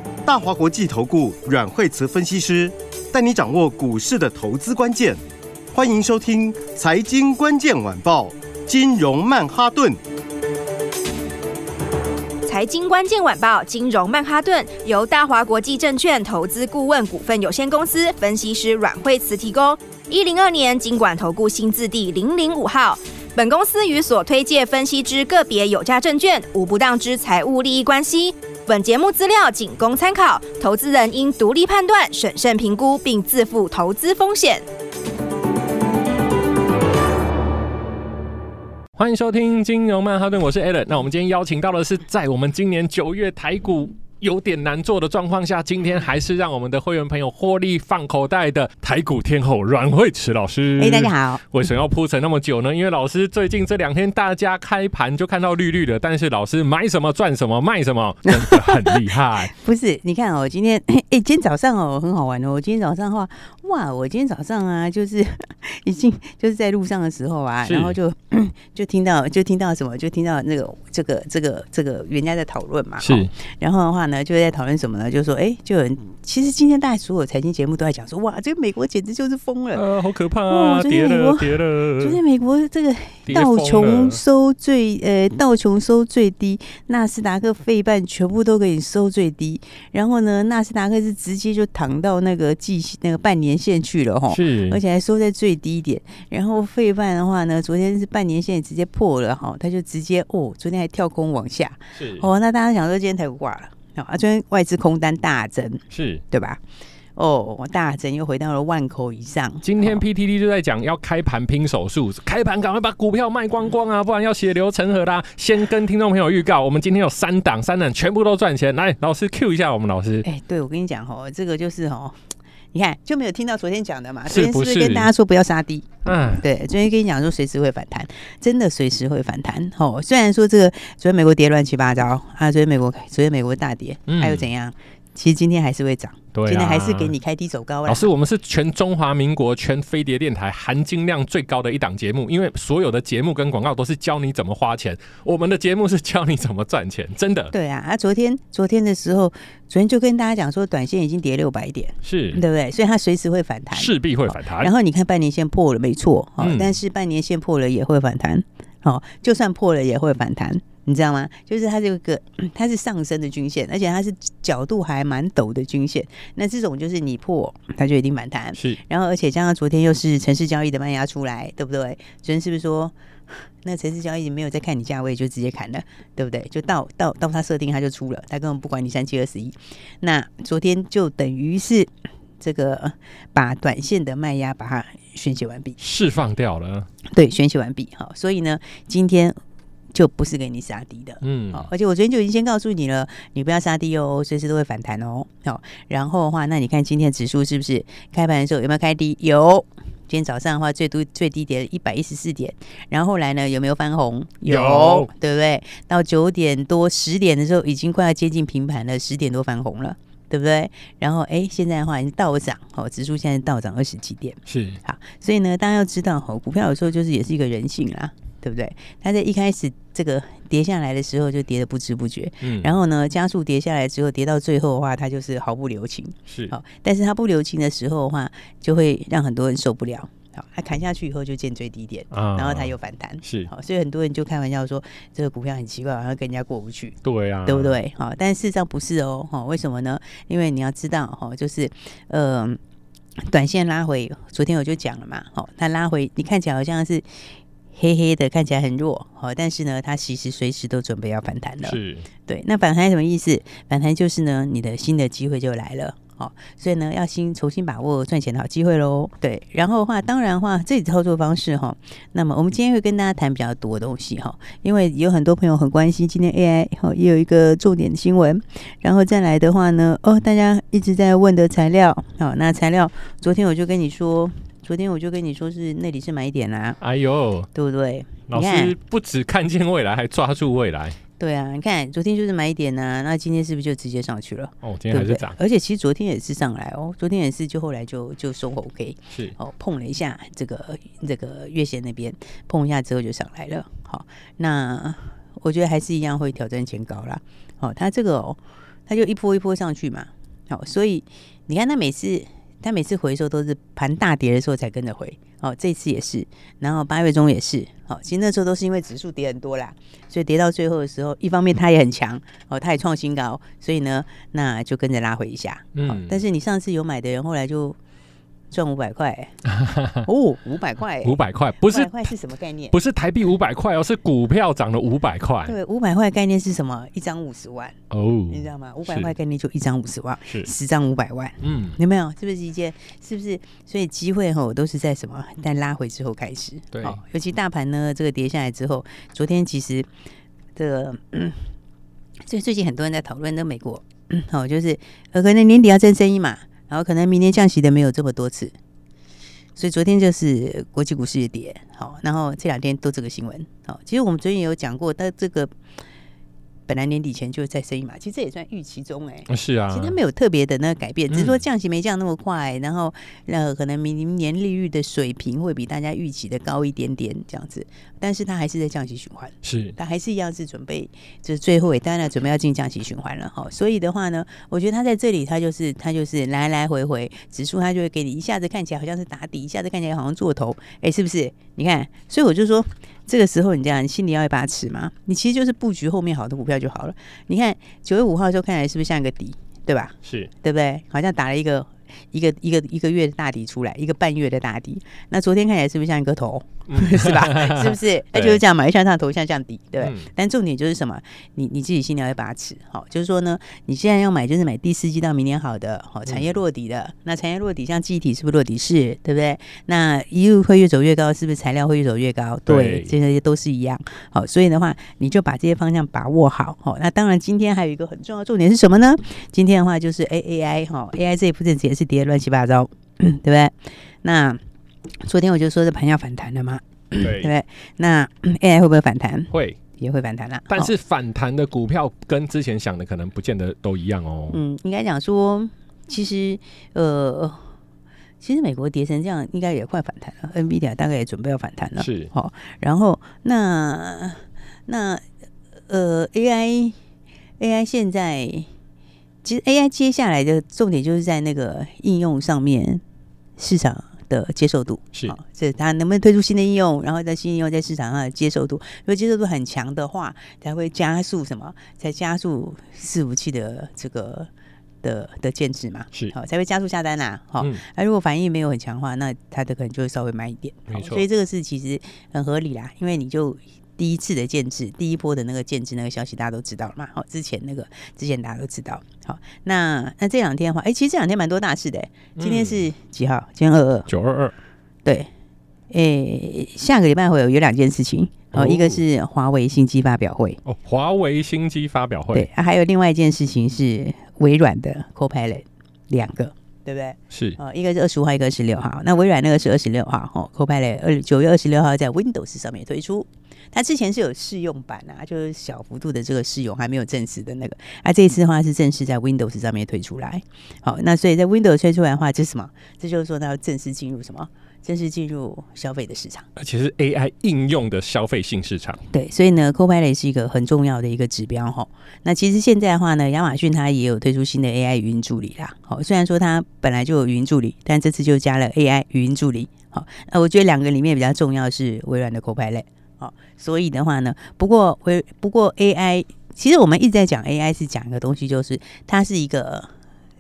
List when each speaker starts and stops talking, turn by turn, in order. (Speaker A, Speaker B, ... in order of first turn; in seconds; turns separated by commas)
Speaker A: 0.3-5.2, Speaker A: 5.7-10.0, Speaker B: 12.4-34.6, Speaker C: 39.0-59.5, Speaker D: 50.8-51.4, Speaker D: 59.5-79.8, Speaker C: 67.6-68.0, Speaker C: 73.0-73.3, Speaker C: 79.7-82.2, Speaker D: 80.5-106.6, Speaker C: 83.3-84.2, Speaker C: 94.3-94.8, Speaker C: 102.0-102.3, Speaker C: 105.9-106.2, Speaker D: 107.2-110.0, Speaker C: 109.6-120.2, Speaker D: 120.2-138.1, Speaker C: 124.3-125.1, Speaker C: 126.0-126.4, Speaker C: 134.1-134.5, Speaker C: 136.3-137.2, Speaker C: 137.9-147.5, Speaker D: 147.5-185.8, Speaker C: 152.0-152.4, Speaker C: 153.7-154.7, Speaker C: 156.4-156.8, Speaker C: 185.8-186.9, Speaker D: 187.1-189.4, Speaker D: 189.9-242.6, Speaker C: 191.2-191.7, Speaker C: 204.5-205.1, Speaker C: 214.5-214.8, Speaker C: 222.4-222.8, Speaker C: 226.3-226.5, Speaker C: 232.1-233.5, Speaker C: 237.0-237.8, Speaker D: 243.3-276.8, Speaker C: 251.6-252.1, Speaker C: 276.8-277.5, Speaker D: 277.5-278.8, Speaker C: 278.3-281.0, Speaker D: 281.2-317.8, Speaker C: 284.6-285.4, Speaker C: 315.8-316.2, Speaker D: 318.5-319.4, Speaker C: 319.5-320.1, Speaker D: 320.0-322.8, Speaker C: 321.0-322.1, Speaker C: 322.7-325.6, Speaker D: 325.5-327.8, Speaker C: 327.9-329.1, Speaker D: 328.3-339.9, Speaker C: 331.4-331.8, Speaker C: 336.7-337.0, Speaker D: 340.6-341.5, Speaker D: 342.2-348.5, Speaker D: 349.6-355.5, Speaker D: 356.7-424.4, Speaker C: 359.3-360.0, Speaker C: 361.1-361.4, Speaker C: 369.4-369.8, Speaker C: 390.0-390.3, Speaker C: 396.7-398.4, Speaker C: 399.8-400.1, Speaker C: 406.1-406.4, Speaker C: 412.5-412.9, Speaker D: 425.0-430.7, Speaker C: 427.0-427.3, Speaker C: 429.3-429.6, Speaker C: 430.5-434.4, Speaker D: 434.3-437.5, Speaker D: 438.2-445.0, Speaker C: 441.8-442.1, Speaker D: 445.7-446.8, Speaker D: 447.4-448.5, Speaker D: 449.2-452.8, Speaker D: 453.4-464.3, Speaker D: 464.8-483.9, Speaker C: 470.7-471.1, Speaker C: 482.2-482.7, Speaker C: 483.9-484.3, Speaker D: 485.7-490.4, Speaker C: 488.3-488.8, Speaker C: 490.5-492.3, Speaker D: 492.1-516.3, Speaker C: 497.1-497.4, Speaker C: 516.4-518.8, Speaker D: 518.9-539.7